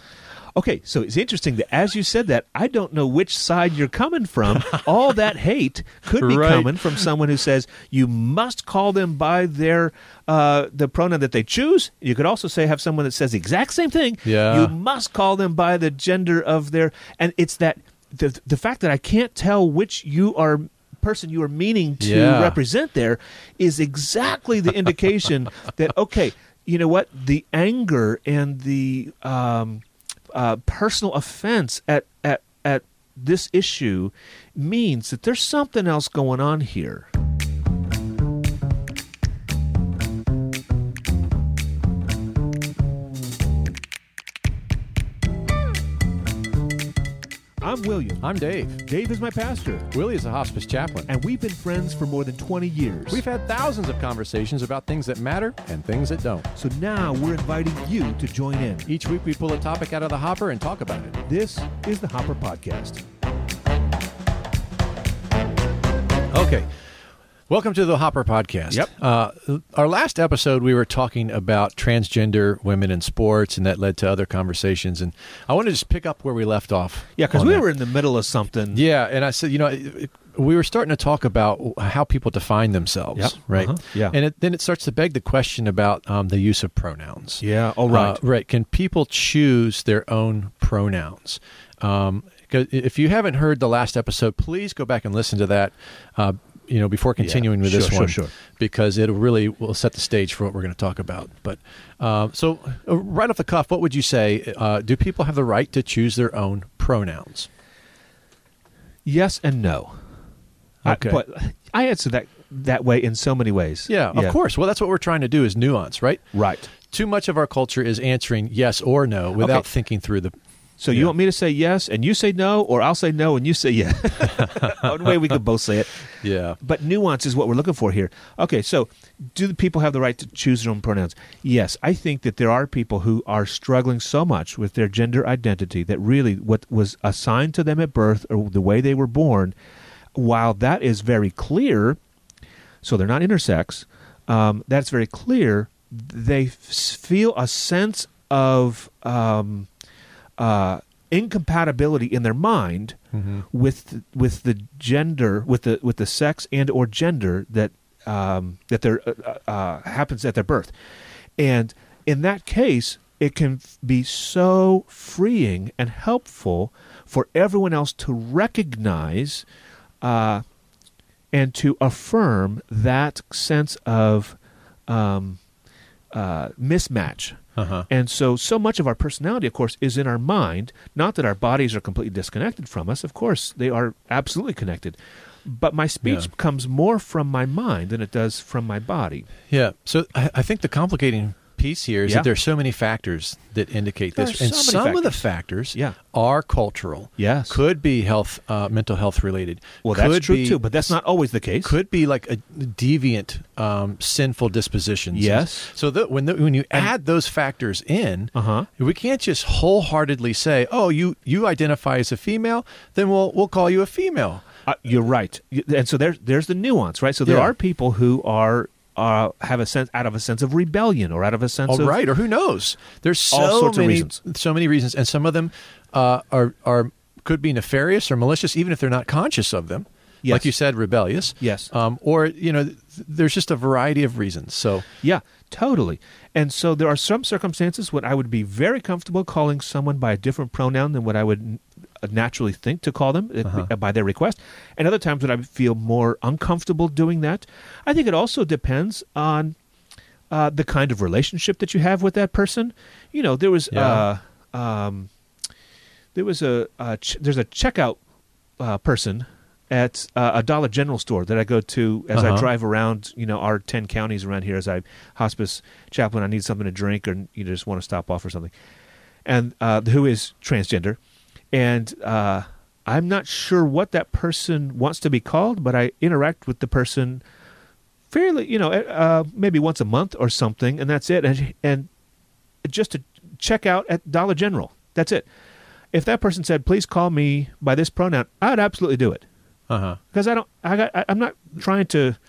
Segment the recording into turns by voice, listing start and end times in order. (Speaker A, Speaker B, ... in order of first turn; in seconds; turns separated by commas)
Speaker A: 0.6-37.1, Speaker B: 4.6-4.8, Speaker B: 6.2-6.8, Speaker B: 14.2-14.7, Speaker B: 22.0-22.6, Speaker A: 47.6-48.2, Speaker B: 48.2-48.8, Speaker A: 48.8-49.9, Speaker B: 49.9-51.1, Speaker A: 51.1-53.2, Speaker B: 53.1-56.5, Speaker A: 56.5-58.9, Speaker B: 58.9-61.2, Speaker A: 61.3-63.0, Speaker B: 66.3-66.7, Speaker B: 67.5-77.7, Speaker A: 77.2-78.8, Speaker B: 78.7-107.5, Speaker A: 83.2-84.2, Speaker A: 87.4-88.2, Speaker A: 97.2-98.3, Speaker A: 109.1-110.0, Speaker B: 110.8-111.2, Speaker A: 110.8-114.4, Speaker B: 113.9-120.3, Speaker A: 116.3-116.7, Speaker A: 119.4-119.7, Speaker A: 120.8-139.6, Speaker B: 124.3-125.1, Speaker B: 126.1-126.6, Speaker A: 140.2-142.0, Speaker A: 142.8-149.7, Speaker A: 150.4-153.0, Speaker B: 153.1-153.4, Speaker A: 153.5-160.7, Speaker A: 161.4-169.4, Speaker A: 170.0-170.4, Speaker A: 171.3-175.4, Speaker A: 176.1-189.3, Speaker B: 177.6-177.9, Speaker B: 189.5-200.6, Speaker A: 194.2-195.2, Speaker A: 197.2-197.6, Speaker A: 199.8-201.8, Speaker B: 201.6-214.4, Speaker A: 205.1-205.7, Speaker A: 208.3-208.7, Speaker A: 214.7-222.0, Speaker B: 217.2-217.5, Speaker B: 221.7-234.9, Speaker A: 223.3-224.2, Speaker A: 230.2-230.5, Speaker A: 231.4-231.7, Speaker A: 235.0-249.6, Speaker A: 250.3-255.1, Speaker B: 253.7-254.0, Speaker A: 256.1-258.0, Speaker A: 258.6-268.5, Speaker B: 262.1-262.5, Speaker A: 269.3-271.0, Speaker A: 271.5-277.2, Speaker A: 278.1-281.9, Speaker A: 282.6-285.3, Speaker A: 285.9-289.2, Speaker B: 289.7-290.0, Speaker A: 290.1-292.2